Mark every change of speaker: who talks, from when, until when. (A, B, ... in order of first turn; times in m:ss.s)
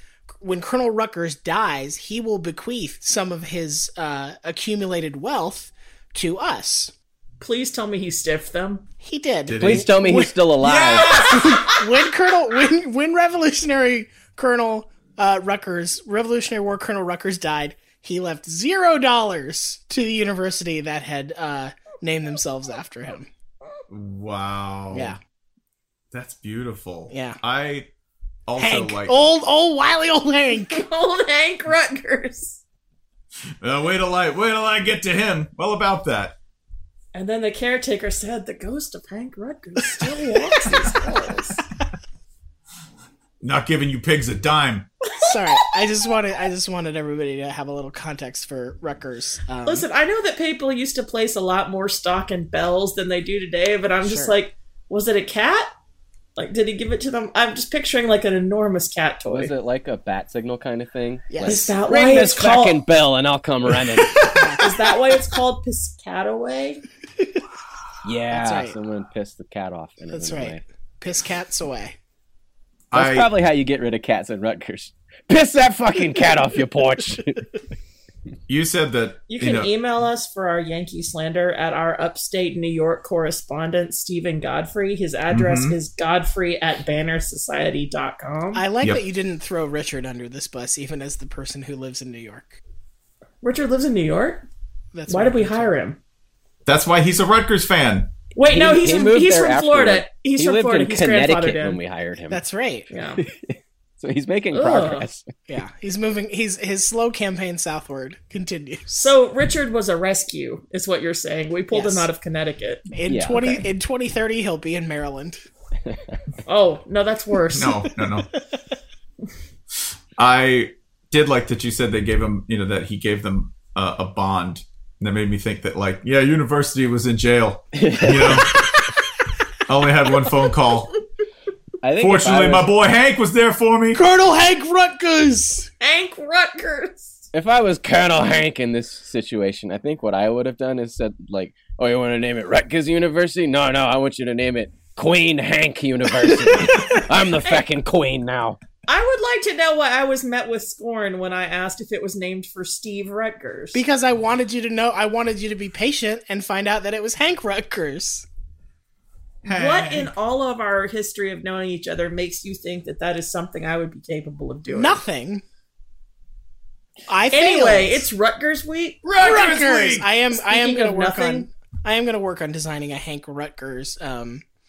0:00.4-0:06.9 A
0:07.4-0:08.8 B
0:09.0-0:23.3 A
0:09.5-0:09.9 C
0:09.6-0:11.6 D
0:10.6-0:11.6 C
0:23.9-0:25.2 C
0:24.9-0:25.2 A
0:26.1-0:27.9 C
0:27.1-0:27.4 A
0:28.5-0:29.3 C
0:28.6-0:30.8 A
0:30.7-0:32.6 B
0:33.6-0:36.4 C
0:37.1-0:41.6 B
0:40.0-0:41.1 A
0:43.4-0:44.9 C
0:45.2-0:49.8 A
0:49.6-0:55.7 B
0:54.0-0:54.4 A
0:56.4-0:59.5 B
0:59.3-1:04.3 D
1:01.3-1:01.7 A
1:01.4-1:02.8 B
1:04.2-1:04.9 A
1:04.6-1:06.8 B
1:08.0-1:10.6 D
1:08.3-1:08.8 A
1:10.1-1:12.0 A
1:12.9-1:13.3 C
1:12.9-1:17.4 D
1:16.0-1:16.6 A
1:18.5-1:19.7 C
1:19.3-1:28.6 B
1:25.3-1:25.8 C
1:28.5-1:32.6 A
1:33.4-1:34.5 B
1:34.9-1:35.7 A
1:35.1-1:36.0 B
1:36.7-1:38.1 C
1:38.4-1:41.8 B
1:38.4-1:42.4 D
1:42.3-1:42.9 A
1:42.9-1:43.2 B
1:43.2-1:45.3 D
1:44.5-1:45.1 B
1:45.5-1:49.1 A
1:49.0-1:52.9 B
1:51.7-1:52.1 A
1:52.9-1:55.4 A
1:53.1-1:53.6 D
1:55.8-1:56.2 D
1:56.4-1:57.7 B
1:57.5-1:58.3 C
1:57.9-1:58.6 A
2:00.2-2:08.6 C
2:07.7-2:08.4 D
2:08.4-2:08.9 A
2:09.7-2:10.9 C
2:11.8-2:12.7 D
2:12.0-2:14.0 C
2:14.0-2:15.7 A
2:15.8-2:17.3 B
2:17.3-2:28.6 D
2:26.7-2:27.0 A
2:28.9-2:33.8 B
2:33.7-2:38.3 A
2:39.4-2:40.1 C
2:39.5-2:45.0 B
2:44.7-2:45.4 A
2:47.1-2:48.1 A
2:47.3-2:49.5 B
2:49.0-2:50.1 C
2:49.2-2:54.4 A
2:50.3-2:51.5 B